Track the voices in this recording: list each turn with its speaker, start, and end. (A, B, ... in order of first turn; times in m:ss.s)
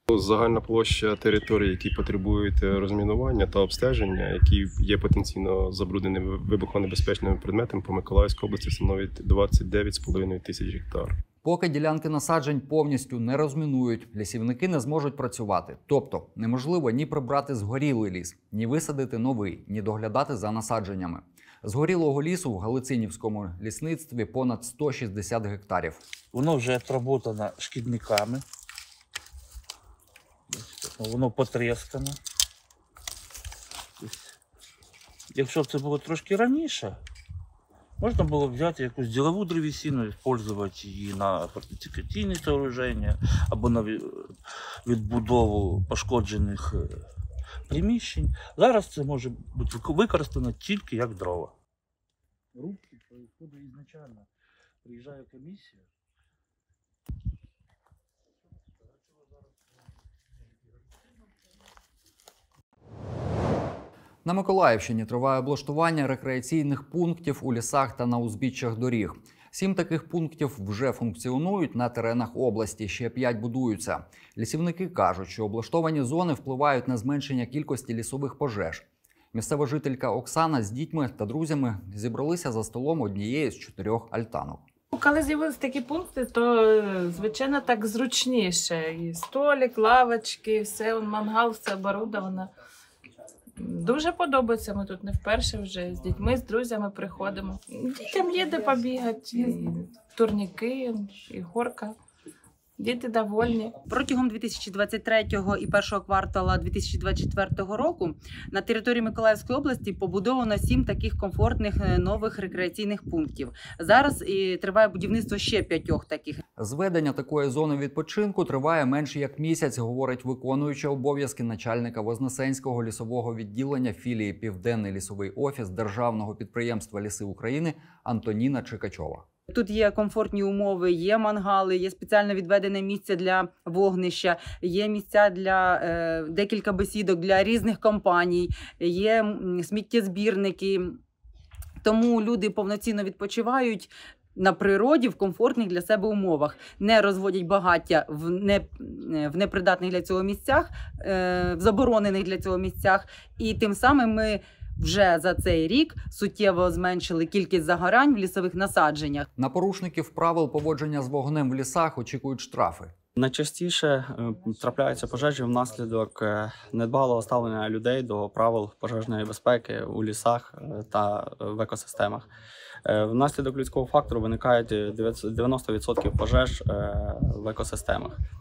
0:00.1-0:11.2 A
0:11.4-0:26.0 B
0:26.3-0:28.4 C
0:30.5-0:32.2 C
0:34.0-0:34.3 C
0:35.3-0:37.0 C
0:38.0-0:44.3 C
0:44.8-0:47.0 C
0:47.7-0:51.5 C
0:52.5-0:54.3 C
0:54.8-0:55.8 C
1:04.2-1:24.6 B
1:25.1-1:32.4 D
1:33.6-1:39.8 D
1:40.6-1:41.8 D
1:42.8-1:43.6 D
1:43.9-1:56.4 E
1:56.6-2:09.2 B
2:09.5-2:21.0 E
2:21.8-2:39.3 E
2:39.4-2:42.9 B
2:43.1-2:52.3 F
2:52.8-2:58.2 F